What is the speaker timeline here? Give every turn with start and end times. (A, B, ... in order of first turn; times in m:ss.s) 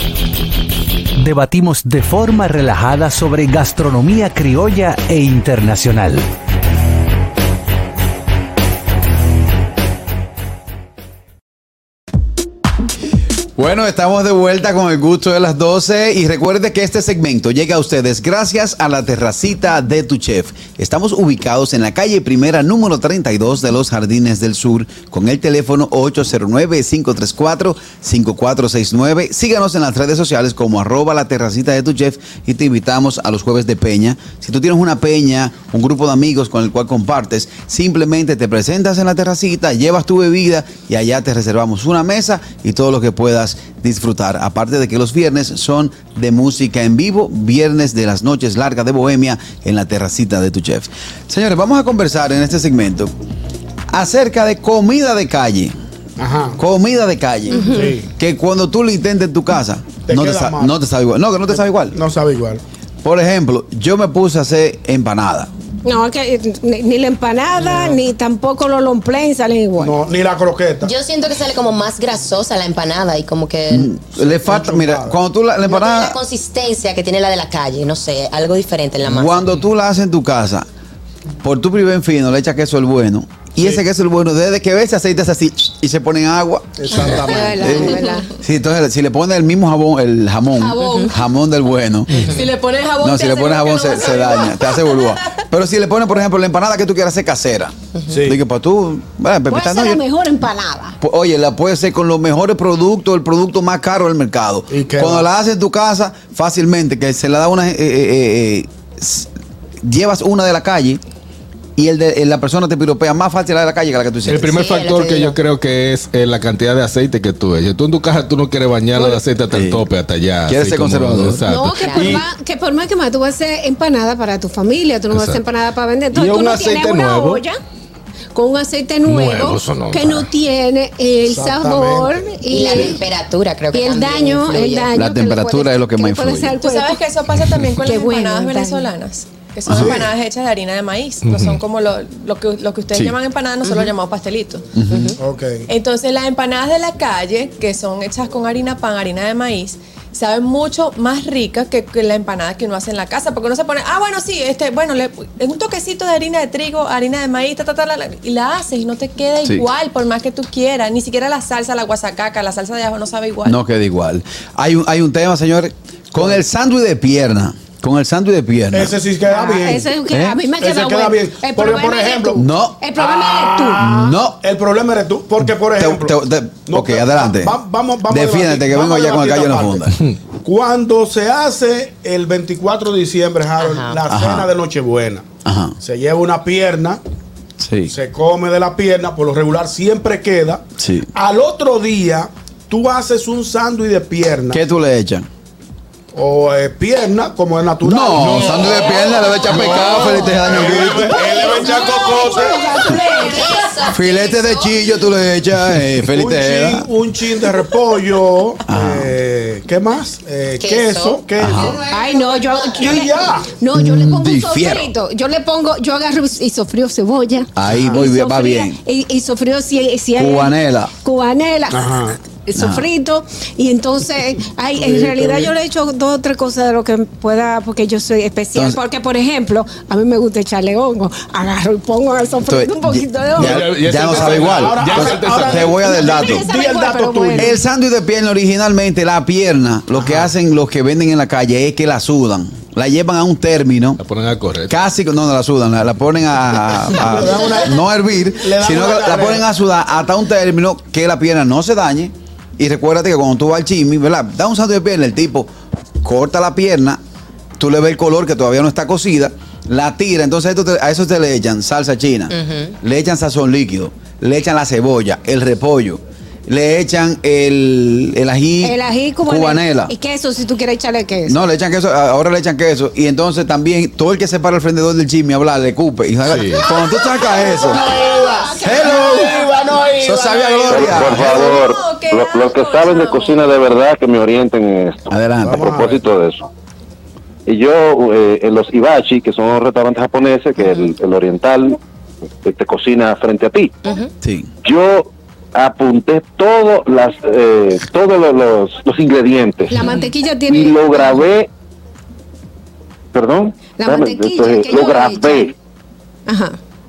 0:01.2-0:06.2 A
0:13.6-0:53.1 B
0:53.9-0:55.7 B
0:56.2-0:56.6 C
0:56.6-1:02.0 B
0:57.5-0:57.9 D
0:57.7-0:58.1 C
1:00.0-1:00.7 C
1:01.9-1:02.6 C
1:03.0-1:05.5 B
1:05.8-1:09.9 D
1:07.6-1:08.0 C
1:09.8-1:10.9 C
1:10.8-1:13.9 E
1:13.7-1:16.2 B
1:14.1-1:15.2 C
1:15.6-1:19.4 E
1:19.1-1:20.7 B
1:21.4-1:32.3 B
1:26.8-1:27.9 C
1:27.0-1:28.3 D
1:30.6-1:31.1 E
1:30.8-1:31.1 F
1:32.2-1:35.3 F
1:33.0-1:40.0 B
1:38.1-1:38.4 C
1:39.5-1:41.0 D
1:41.0-1:49.3 B
1:44.7-1:45.3 C
1:49.8-1:51.0 B
1:51.8-1:54.5 B
1:54.3-2:02.2 G
1:54.4-1:55.4 E
1:59.5-1:59.8 B
2:00.5-2:01.4 B
2:01.5-2:07.5 D
2:01.8-2:02.2 E
2:05.1-2:05.4 G
2:06.1-2:07.4 G
2:08.3-2:13.0 D
2:09.0-2:10.3 G
2:11.3-2:12.2 C
2:12.5-2:14.9 E
2:13.7-2:17.0 D
2:14.9-2:16.6 B
2:16.6-2:24.6 F
2:17.8-2:18.9 D
2:19.7-2:20.1 B
2:19.7-2:20.1 C
2:21.2-2:21.6 G
2:23.6-2:23.9 E
2:24.7-2:25.1 B
2:24.8-2:25.2 E
2:25.2-2:25.6 C
2:25.7-2:43.6 F
2:43.4-2:48.9 B
2:48.7-2:49.9 C
2:49.3-2:53.8 D
2:50.1-2:50.4 B
2:50.6-2:52.4 C
2:52.4-2:52.8 B
2:53.0-2:59.9 C
2:53.8-2:54.4 B
2:55.8-3:00.0 B
3:00.4-3:05.2 C
3:03.6-3:04.0 E
3:04.1-3:04.5 B
3:05.4-3:05.8 B
3:05.8-3:07.0 C
3:07.6-3:07.9 B
3:07.9-3:10.6 C
3:10.8-3:11.1 B
3:11.1-3:14.6 C
3:14.5-3:15.3 B
3:16.1-3:19.0 C
3:17.8-3:21.2 B
3:18.2-3:22.5 G
3:18.9-3:19.7 E
3:20.5-3:21.0 C
3:20.8-3:23.5 D
3:22.7-3:25.0 E
3:23.8-3:26.9 B
3:26.1-3:31.8 C
3:28.6-3:29.1 B
3:30.6-3:31.2 E
3:31.4-3:31.8 B
3:31.8-3:53.6 D
3:32.8-3:33.5 C
3:33.7-3:34.9 B
3:37.6-3:38.8 B
3:37.7-3:38.0 C
3:40.2-3:40.9 B
3:41.7-3:42.2 C
3:42.6-3:42.9 B
3:44.8-3:45.5 C
3:48.5-3:48.8 B
3:52.4-3:56.4 B
3:53.4-3:55.8 G
3:54.0-3:57.5 C
3:55.8-3:57.6 D
3:57.4-4:04.0 B
4:00.0-4:00.2 C
4:04.0-4:04.7 G
4:04.7-4:15.5 B
4:07.0-4:09.4 C
4:16.0-4:17.0 B
4:17.6-4:29.9 B
4:22.3-4:22.7 E
4:28.6-4:31.4 D
4:31.3-4:37.9 B
4:36.3-4:36.7 G
4:37.0-4:39.2 D
4:37.7-4:41.1 C
4:38.6-4:39.4 B
4:40.0-4:41.5 B
4:40.7-4:46.5 H
4:41.1-4:43.8 F
4:45.1-4:45.7 B
4:45.4-4:45.9 C
4:47.4-4:51.8 H
4:52.4-4:53.7 H
4:54.2-4:54.5 B
4:54.6-4:59.8 H
4:59.7-5:01.2 D
5:00.4-5:01.5 H
5:03.1-5:05.5 H
5:03.8-5:05.5 D
5:06.3-5:06.6 D